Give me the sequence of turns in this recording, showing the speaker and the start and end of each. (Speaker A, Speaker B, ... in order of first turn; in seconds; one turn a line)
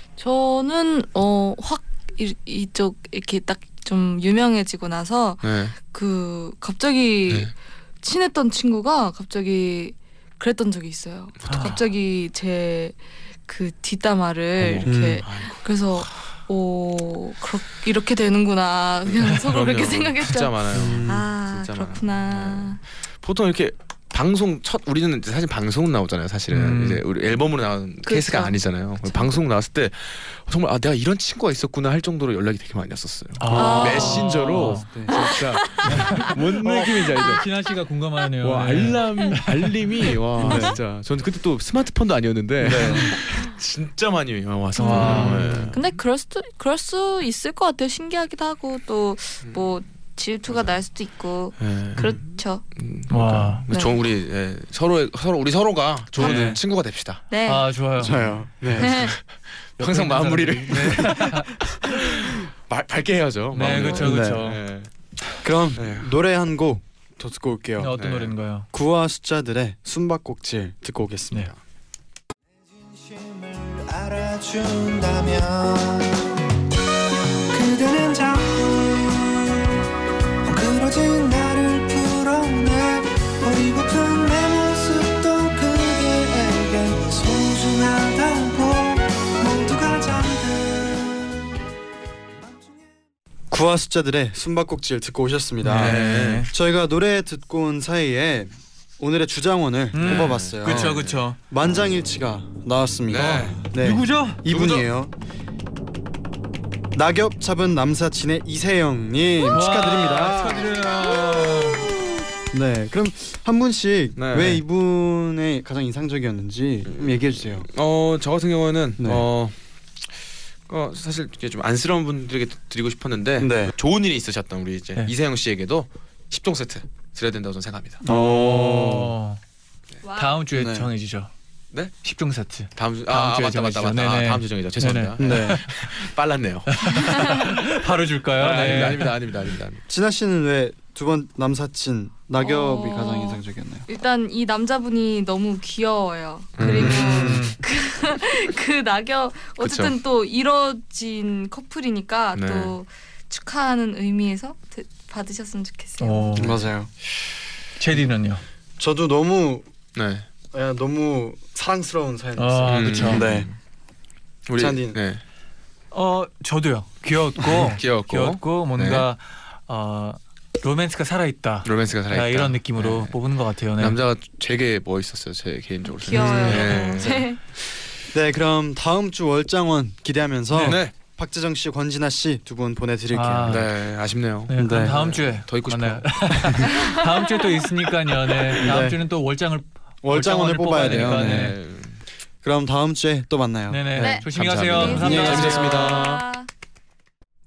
Speaker A: 0.2-22.8
Speaker B: 5.4-5.7
Speaker B: 11.4-11.8
Speaker C: 11.5-11.8
Speaker B: 14.6-16.2
Speaker D: 14.8-15.2
Speaker B: 19.1-37.5
Speaker D: 20.7-21.3
Speaker C: 26.5-27.0
Speaker A: 28.0-29.4
Speaker C: 33.4-34.9
Speaker A: 33.5-34.5
Speaker D: 34.8-35.2
Speaker A: 35.1-36.3
Speaker C: 35.8-39.8
Speaker B: 38.4-45.9
Speaker D: 40.4-40.8
Speaker D: 42.6-43.1
Speaker C: 42.7-43.1
Speaker A: 43.2-43.5
Speaker A: 44.8-52.6
Speaker C: 44.8-45.7
Speaker D: 45.0-45.7
Speaker B: 51.6-52.1
Speaker B: 52.8-57.2
Speaker C: 53.1-53.6
Speaker A: 53.7-54.0
Speaker C: 56.2-56.6
Speaker D: 56.2-56.6
Speaker A: 57.3-57.7
Speaker C: 57.5-58.5
Speaker D: 58.0-59.1
Speaker A: 58.8-59.1
Speaker B: 58.9-59.2
Speaker B: 59.8-61.3
Speaker C: 59.8-61.5
Speaker D: 60.8-62.0
Speaker B: 61.9-64.9
Speaker C: 63.5-64.6
Speaker D: 63.6-64.4
Speaker D: 65.4-68.0
Speaker B: 65.8-66.1
Speaker C: 67.8-68.7
Speaker B: 68.0-68.3
Speaker D: 68.7-71.5
Speaker E: 72.7-76.3
Speaker E: 77.5-79.8
Speaker E: 80.4-91.5
Speaker E: 92.4-92.9
Speaker D: 93.5-105.1
Speaker C: 95.6-96.5
Speaker B: 95.7-96.5
Speaker C: 99.9-101.4
Speaker B: 100.0-101.2
Speaker B: 103.1-103.7
Speaker C: 103.2-104.4
Speaker B: 104.5-104.9
Speaker D: 106.9-111.7
Speaker C: 109.5-111.9
Speaker D: 112.4-117.7
Speaker B: 114.2-114.6
Speaker B: 116.9-117.1
Speaker B: 117.7-119.5
Speaker D: 119.0-119.2
Speaker B: 120.7-128.1
Speaker D: 123.4-123.7
Speaker D: 128.0-129.1
Speaker C: 128.1-129.4
Speaker A: 130.0-130.4
Speaker C: 130.1-131.3
Speaker D: 130.5-130.9
Speaker C: 132.0-136.0
Speaker B: 132.7-137.1
Speaker D: 135.2-135.6
Speaker C: 136.7-139.2
Speaker A: 137.0-137.5
Speaker B: 138.3-139.8
Speaker D: 139.9-143.8
Speaker A: 142.4-156.4
Speaker B: 146.6-147.0
Speaker C: 146.6-147.6
Speaker D: 146.6-147.5
Speaker B: 149.6-149.9
Speaker B: 152.3-152.7
Speaker C: 156.0-156.6
Speaker D: 156.3-156.9
Speaker C: 157.8-158.4
Speaker D: 158.8-159.7
Speaker B: 159.9-160.2
Speaker D: 160.5-163.5
Speaker C: 162.4-163.3
Speaker B: 162.7-163.5
Speaker B: 164.5-165.2
Speaker D: 164.6-165.0
Speaker C: 165.9-174.0
Speaker B: 167.5-169.1
Speaker B: 171.6-173.1
Speaker B: 173.8-177.3
Speaker A: 175.8-177.4
Speaker D: 176.1-177.2
Speaker D: 178.1-183.6
Speaker B: 180.5-180.9
Speaker C: 183.1-183.7
Speaker B: 183.5-186.6
Speaker C: 184.5-191.6
Speaker D: 184.6-185.0
Speaker A: 186.7-187.0
Speaker D: 188.6-189.0
Speaker D: 190.0-191.6
Speaker B: 190.7-192.0
Speaker D: 192.4-194.2
Speaker C: 193.7-195.9
Speaker A: 194.0-196.5
Speaker B: 194.2-196.2
Speaker D: 195.0-195.6